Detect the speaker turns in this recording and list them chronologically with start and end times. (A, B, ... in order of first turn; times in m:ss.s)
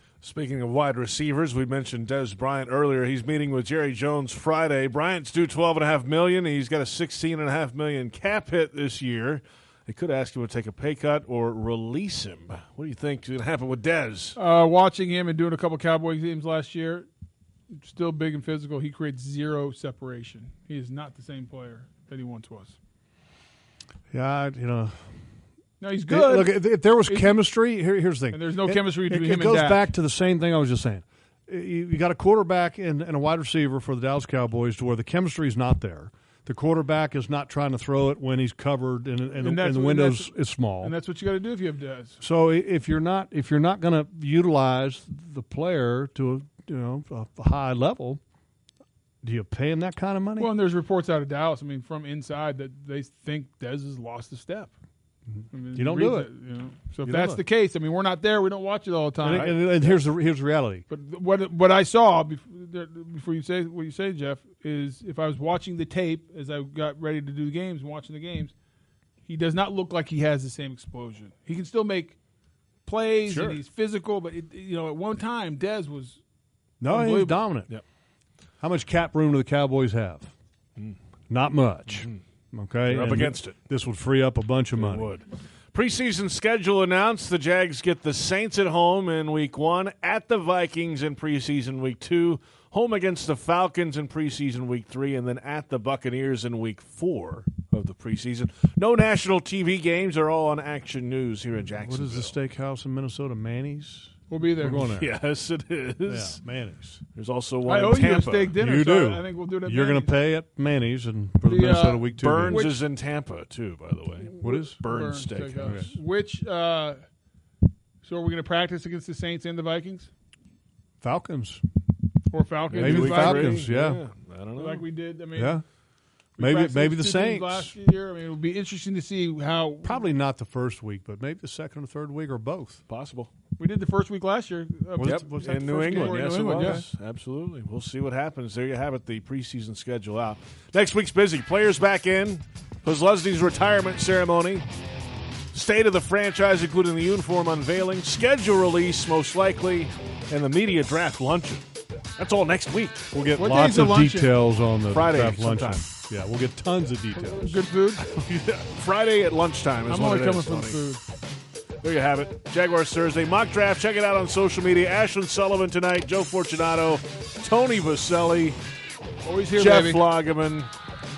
0:00.2-0:14.4 A
0:14.4-0:17.1 B
0:17.8-0:22.8 B
0:24.1-0:25.1 C
0:25.8-0:27.4 B
0:26.1-0:40.9 C
0:28.3-0:29.9 B
0:39.4-0:42.2 B
0:42.2-0:48.2 C
0:49.2-0:50.5 C
0:50.4-0:54.7 B
0:55.5-0:59.6 B
0:55.8-0:56.3 C
0:57.0-0:57.4 C
0:59.2-1:00.8 C
0:59.3-0:59.9 A
1:00.9-1:08.5 B
1:09.3-1:12.2 B
1:12.9-1:16.2 B
1:13.3-1:13.6 A
1:16.8-1:17.7 C
1:16.8-1:17.4 B
1:18.6-1:20.3 C
1:21.3-1:25.1 C
1:21.9-1:22.2 A
1:22.9-1:23.6 A
1:24.8-1:42.4 A
1:41.8-1:45.1 C
1:44.3-1:44.9 B
1:44.6-1:46.4 A
1:46.1-1:47.0 C
1:47.1-1:48.6 A
1:47.7-1:50.1 B
1:48.6-1:52.6 C
1:51.4-1:52.8 B
1:52.2-1:55.9 A
1:54.4-1:54.8 C
1:54.4-1:57.0 B
1:58.0-2:00.1 B
2:01.0-2:01.6 C
2:02.3-2:03.6 B
2:02.7-2:04.9 A
2:02.8-2:04.0 C
2:04.6-2:05.6 B
2:05.4-2:05.6 C
2:06.4-2:07.7 C
2:06.4-2:10.0 B
2:09.8-2:12.8 C
2:12.9-2:13.3 A
2:13.6-2:16.8 B
2:15.0-2:16.8 C
2:15.0-2:24.7 A
2:25.5-2:31.7 A
2:32.2-2:33.1 A
2:33.1-2:37.6 C
2:33.4-2:34.3 B
2:34.9-2:35.9 A
2:37.2-2:38.0 B
2:38.0-2:40.8 A
2:39.9-2:41.0 B
2:41.8-2:48.6 A
2:49.2-2:50.0 B
2:49.6-2:50.7 A